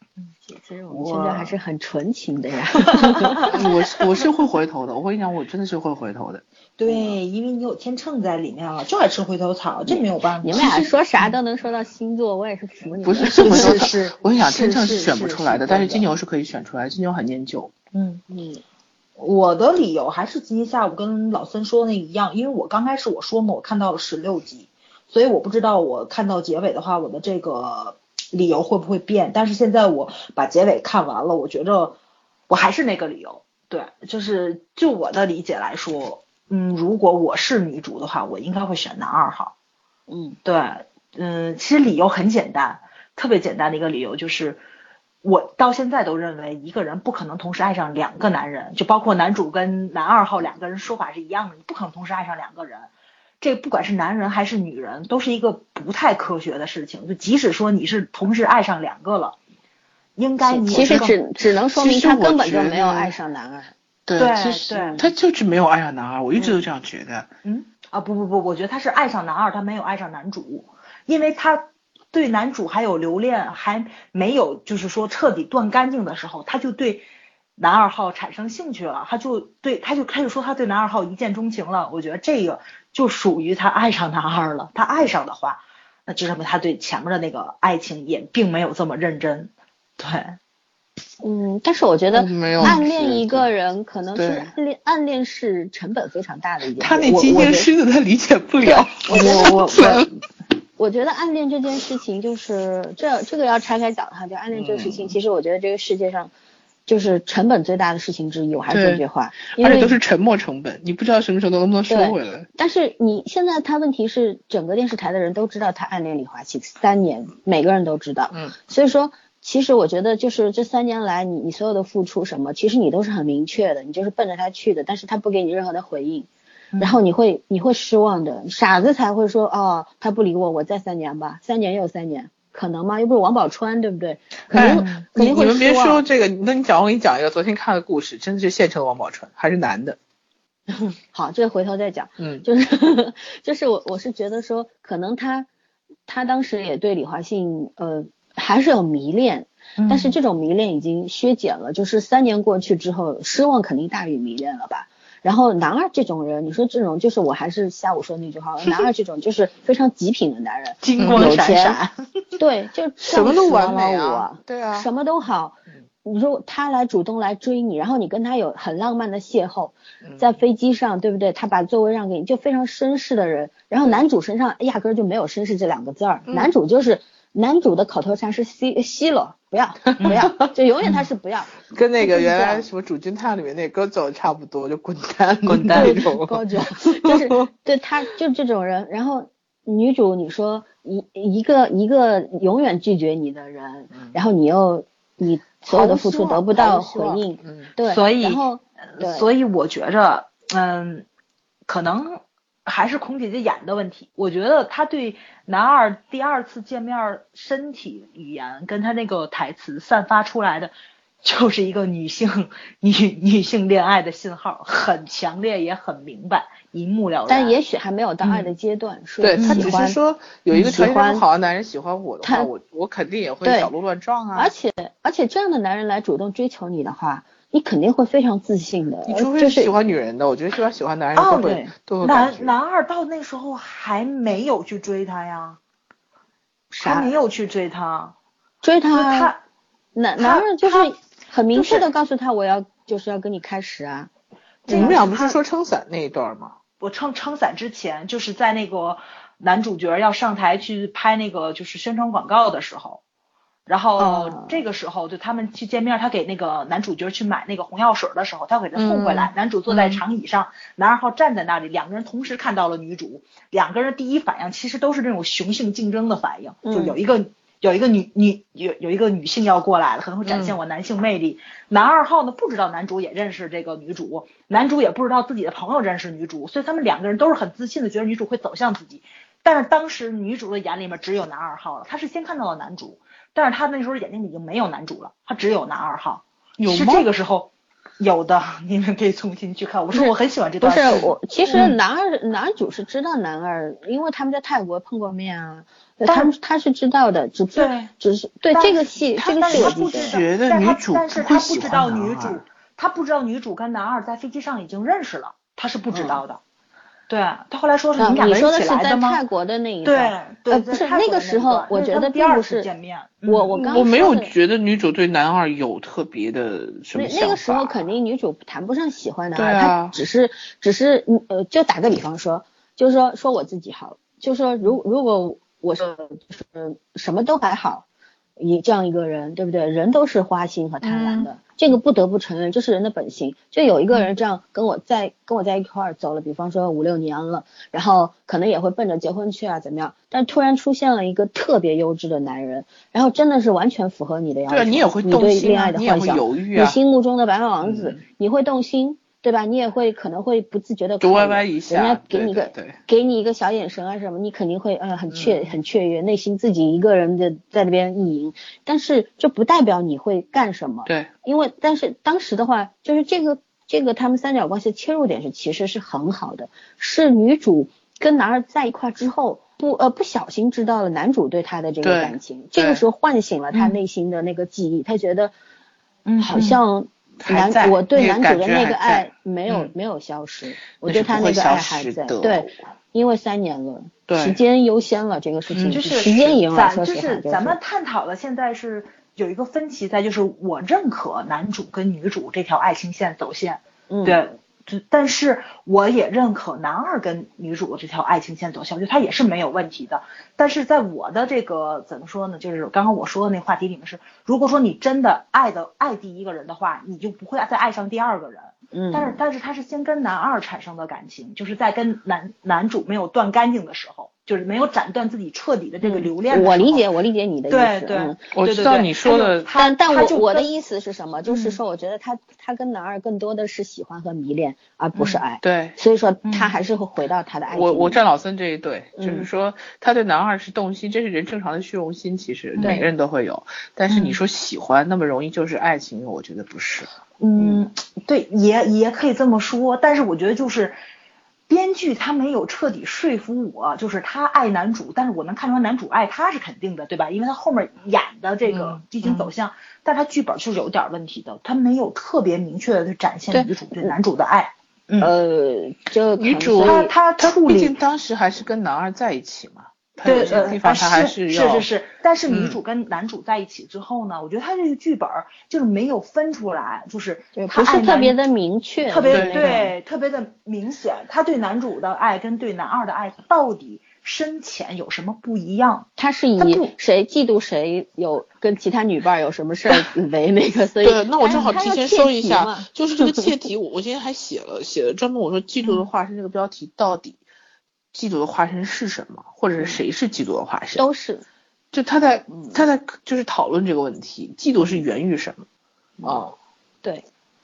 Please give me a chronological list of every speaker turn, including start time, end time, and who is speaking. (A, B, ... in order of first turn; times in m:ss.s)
0:00.4-0:03.6 A
0:00.9-0:01.5 B
0:02.8-0:03.6 B
0:03.5-0:06.4 C
0:06.8-0:11.4 B
0:06.9-0:07.2 A
0:09.9-0:13.9 A
0:13.0-0:17.7 C
0:13.2-0:16.1 B
0:17.9-0:18.2 B
0:18.3-0:18.6 A
0:19.2-0:32.0 B
0:32.5-0:39.5 B
0:40.1-0:40.4 A
0:40.4-0:44.6 B
0:45.2-0:52.9 B
0:53.4-0:59.4 B
1:00.2-1:01.2 B
1:00.4-1:03.7 A
1:00.7-1:01.1 C
1:01.7-1:03.2 C
1:04.1-1:07.3 C
1:04.2-1:05.0 B
1:04.7-1:05.1 A
1:07.4-1:17.1 B
1:17.6-1:30.4 B
1:31.2-1:37.7 A
1:32.1-1:33.5 C
1:34.1-1:34.5 C
1:36.8-1:40.1 C
1:38.6-1:40.0 A
1:39.1-1:39.9 B
1:40.8-1:46.3 A
1:44.5-1:45.2 C
1:46.9-1:50.0 A
1:48.7-1:52.5 C
1:51.9-2:06.3 A
2:06.8-2:16.0 A
2:14.5-2:20.0 C
2:14.6-2:15.0 B
2:20.7-2:25.5 A
2:22.2-2:22.4 C
2:26.1-2:41.8 A
2:29.8-2:30.2 B
2:40.8-2:41.9 B
2:41.0-2:41.4 C
2:42.4-3:02.7 A
2:43.0-2:44.9 C
2:50.0-2:50.3 C
2:59.9-3:00.5 C
3:01.7-3:07.5 C
3:05.4-3:05.9 B
3:05.7-3:19.3 A
3:15.6-3:17.7 C
3:17.8-3:18.4 B
3:19.0-3:21.0 B
3:21.7-3:30.7 B
3:31.2-3:37.6 B
3:37.3-3:40.0 A
3:39.2-3:44.5 C
3:39.4-3:39.8 B
3:40.5-3:40.8 B
3:40.5-3:41.2 A
3:42.2-3:42.5 A
3:43.4-3:43.7 A
3:44.3-3:49.7 A
3:49.1-3:52.5 C
3:51.2-3:55.6 B
3:56.7-3:57.1 A
3:56.8-3:58.2 B
3:58.6-3:59.3 A
3:58.9-3:59.4 B
4:00.0-4:04.1 A
4:00.2-4:00.9 B
4:01.6-4:01.8 B
4:04.7-4:05.0 A
4:04.7-4:05.4 B
4:04.7-4:06.6 C
4:06.8-4:13.0 B
4:13.7-4:51.7 B
4:14.0-4:14.6 A
4:18.8-4:20.0 C
4:26.6-4:27.0 A
4:30.3-4:30.6 C
4:46.6-4:47.1 C
4:49.9-5:00.2 A
4:57.5-4:57.9 B
4:58.5-5:06.4 B
4:59.2-5:02.4 C
5:07.1-5:09.2 B
5:08.0-5:12.7 A
5:09.8-5:13.9 B
5:13.3-5:14.3 A
5:13.6-5:17.8 C
5:17.0-5:27.8 A
5:19.4-5:20.0 C
5:28.4-6:15.3 A
5:30.8-5:31.3 C
5:44.5-5:46.8 C
5:47.6-5:48.0 C
5:51.0-5:52.8 C
5:55.1-5:55.5 C
6:11.8-6:12.8 C
6:13.5-6:13.8 B
6:16.1-6:16.6 B
6:16.2-6:27.6 A
6:17.2-6:19.7 C
6:20.8-6:22.6 C
6:24.1-6:24.4 C
6:25.5-6:25.8 C
6:25.7-6:56.9 B
6:33.9-6:34.2 A
6:48.7-6:49.2 A
6:55.8-6:58.3 A
6:57.5-7:00.5 B
6:58.3-6:59.5 C
6:59.5-7:08.0 A
7:01.3-7:01.6 B
7:05.0-7:05.2 B
7:05.4-7:05.8 C
7:06.2-7:06.5 B
7:07.5-7:16.9 C
7:09.0-7:09.3 A
7:12.6-7:12.9 B
7:12.6-7:12.9 A
7:13.9-7:14.2 B
7:17.2-7:20.8 B
7:17.4-7:17.7 A
7:21.5-7:35.1 B
7:28.5-7:28.8 C
7:33.3-7:34.0 A
7:35.0-7:36.9 A
7:36.2-7:41.7 C
7:36.6-7:37.8 B
7:40.0-7:48.2 B
7:42.3-7:42.6 C
7:47.4-7:49.7 A
7:48.9-7:56.7 B
7:49.1-7:49.6 C
7:56.0-8:03.3 A
8:00.8-8:07.2 C
8:07.9-8:10.8 C
8:10.8-8:11.2 A
8:11.7-8:15.5 C
8:16.0-8:16.4 C